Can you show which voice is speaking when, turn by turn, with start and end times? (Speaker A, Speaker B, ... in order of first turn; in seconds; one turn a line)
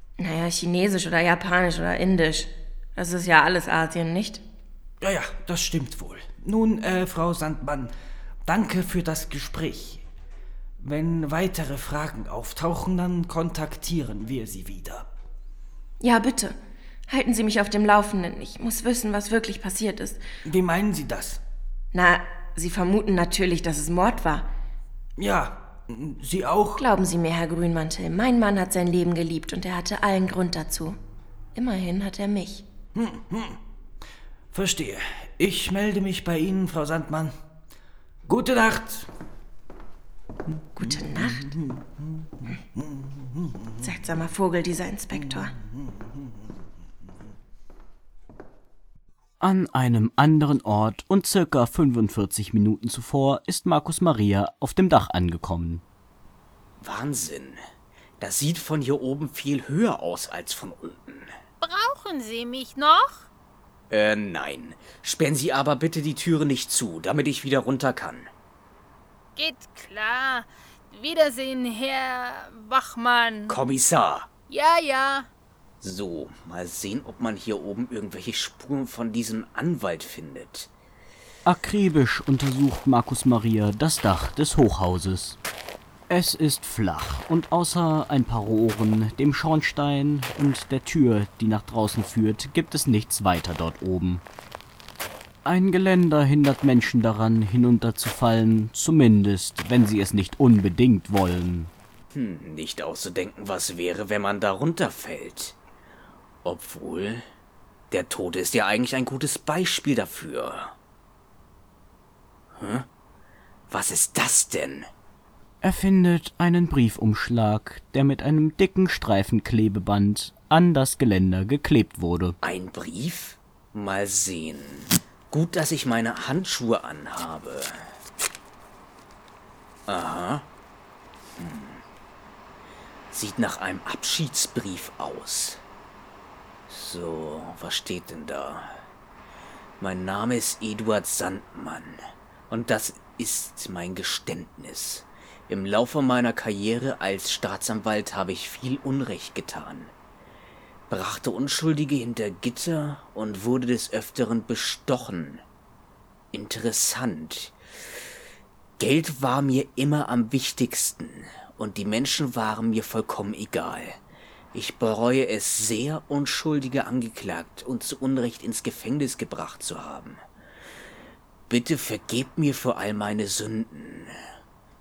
Speaker A: 0.2-4.4
Speaker B: 5.0-7.9
Speaker B: 8.5-10.0
Speaker B: 10.8-15.1
Speaker A: 16.0-16.6
Speaker A: 17.1-20.2
Speaker B: 20.4-21.4
Speaker A: 21.9-24.5
Speaker B: 25.2-26.8
Speaker A: 26.8-31.0
Speaker A: 31.6-32.6
Speaker B: 33.0-33.6
Speaker B: 34.5-37.3
Speaker B: 38.3-39.1
Speaker A: 40.8-41.5
Speaker B: 40.8-43.9
Speaker A: 43.8-45.5
Speaker B: 45.1-46.3
Speaker C: 49.4-55.8
Speaker D: 56.8-57.6
Speaker D: 58.2-61.3
Speaker E: 61.6-63.3
Speaker D: 63.9-68.3
Speaker E: 69.4-73.6
Speaker D: 73.5-74.3
Speaker E: 74.5-75.3
Speaker D: 75.8-80.7
Speaker C: 81.5-85.4
Speaker C: 86.1-94.2
Speaker C: 95.5-101.7
Speaker D: 102.1-105.6
Speaker D: 106.4-107.2
Speaker D: 107.9-110.8
Speaker D: 112.6-112.9
Speaker D: 113.7-114.9
Speaker C: 115.6-122.4
Speaker D: 122.4-127.8
Speaker D: 129.9-130.5
Speaker D: 131.4-131.8
Speaker D: 133.1-135.6
Speaker D: 136.7-138.7
Speaker D: 139.8-149.9
Speaker D: 150.9-155.4
Speaker D: 156.3-157.6
Speaker D: 158.8-164.0
Speaker D: 164.5-170.2
Speaker D: 171.5-174.1